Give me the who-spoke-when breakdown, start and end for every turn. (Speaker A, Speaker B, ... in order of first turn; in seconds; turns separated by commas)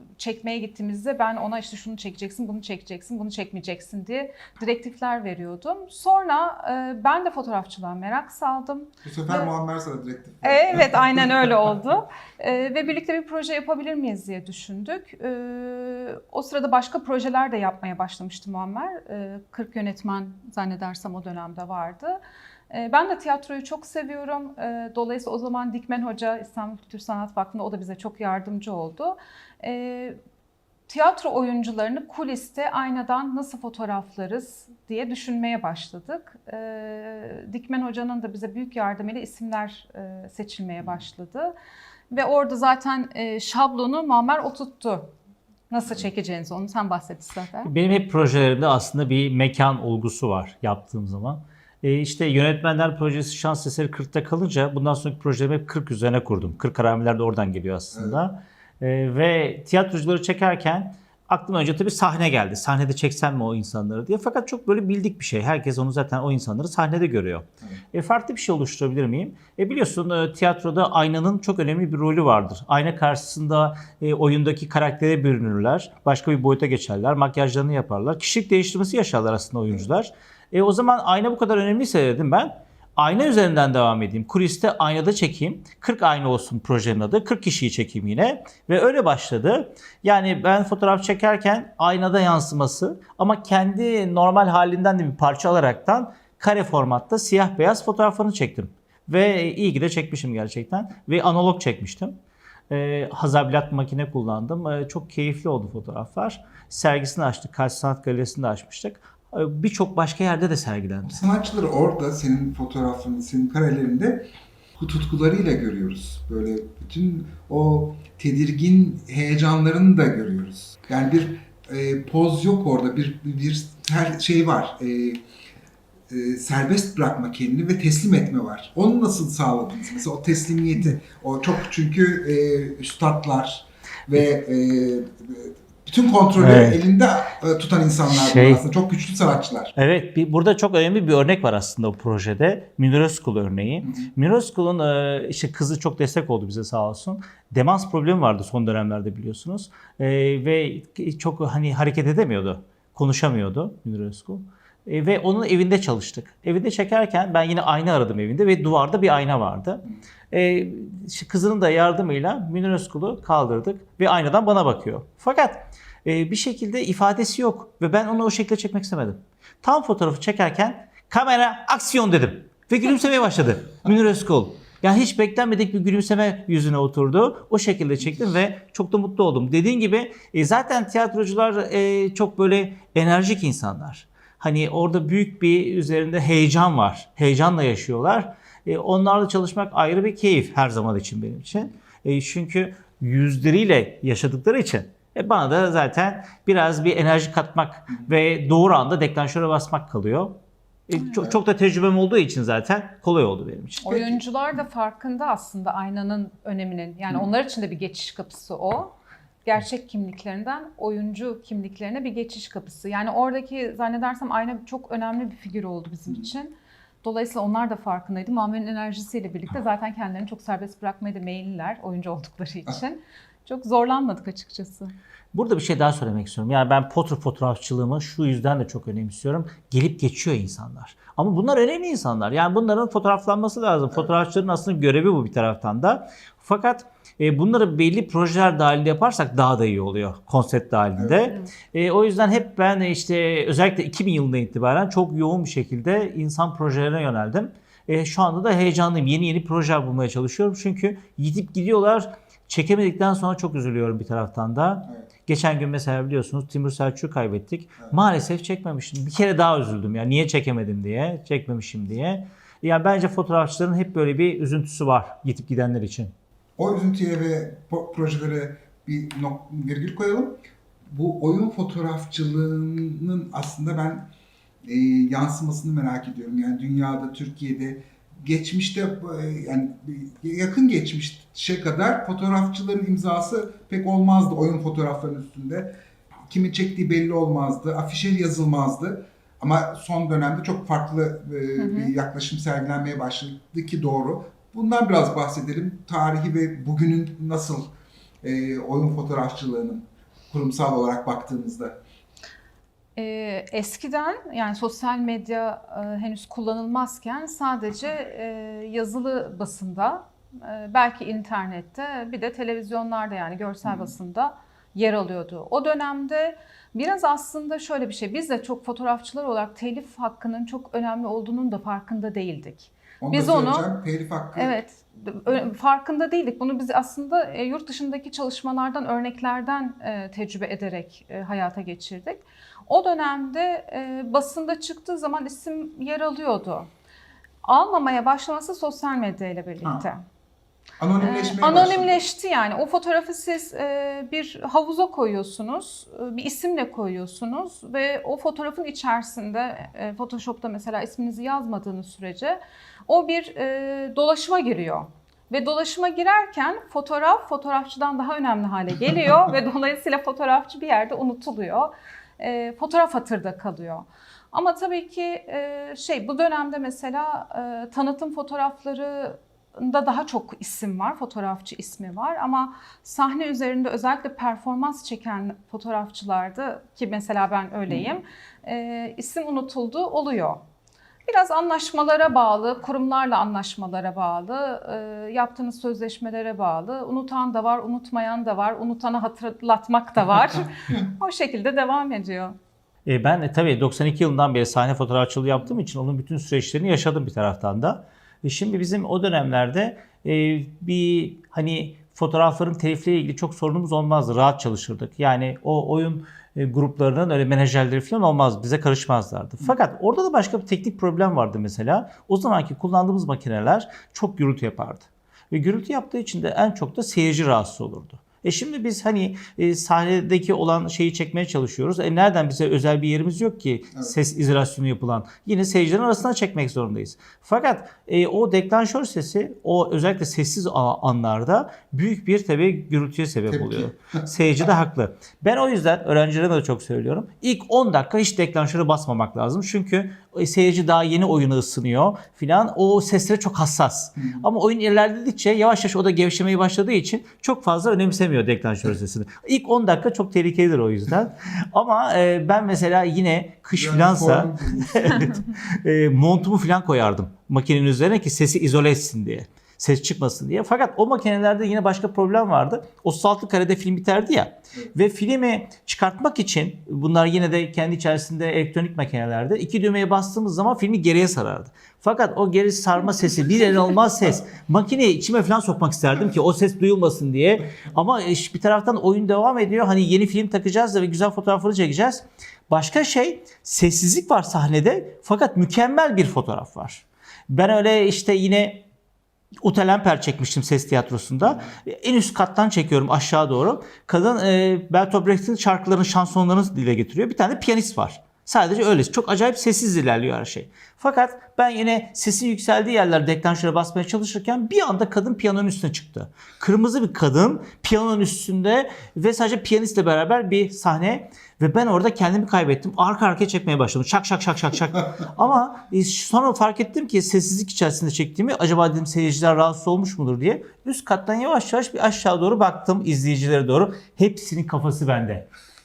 Speaker A: 0.2-9.5, Speaker B: 9.0-11.5, Speaker A: 10.4-22.2, Speaker A: 22.7-30.2, Speaker A: 30.9-41.5, Speaker A: 42.1-45.1, Speaker A: 45.7-47.7, Speaker C: 47.6-102.2, Speaker B: 57.9-58.2, Speaker C: 102.7-111.2, Speaker B: 111.0-125.2, Speaker B: 126.1-139.7, Speaker C: 136.4-136.8, Speaker C: 138.1-138.6, Speaker C: 139.7-200.4, Speaker B: 143.8-144.1, Speaker C: 200.9-203.9, Speaker A: 203.8-208.9, Speaker B: 203.8-204.2, Speaker A: 209.4-216.5, Speaker A: 217.0-224.9, Speaker C: 225.3-266.1, Speaker B: 241.0-241.3, Speaker B: 266.6-270.4, Speaker B: 270.9-274.1, Speaker B: 274.6-285.8, Speaker B: 286.3-297.7, Speaker A: 291.6-291.9, Speaker B: 298.2-301.8, Speaker A: 302.9-323.7, Speaker B: 313.6-313.9, Speaker B: 323.0-324.5, Speaker A: 324.3-336.7, Speaker A: 337.4-340.0, Speaker B: 340.8-342.0, Speaker A: 341.0-380.4, Speaker A: 381.1-392.3, Speaker C: 392.9-488.6, Speaker B: 433.3-434.1, Speaker B: 444.0-444.2, Speaker B: 453.5-455.1, Speaker C: 489.4-525.3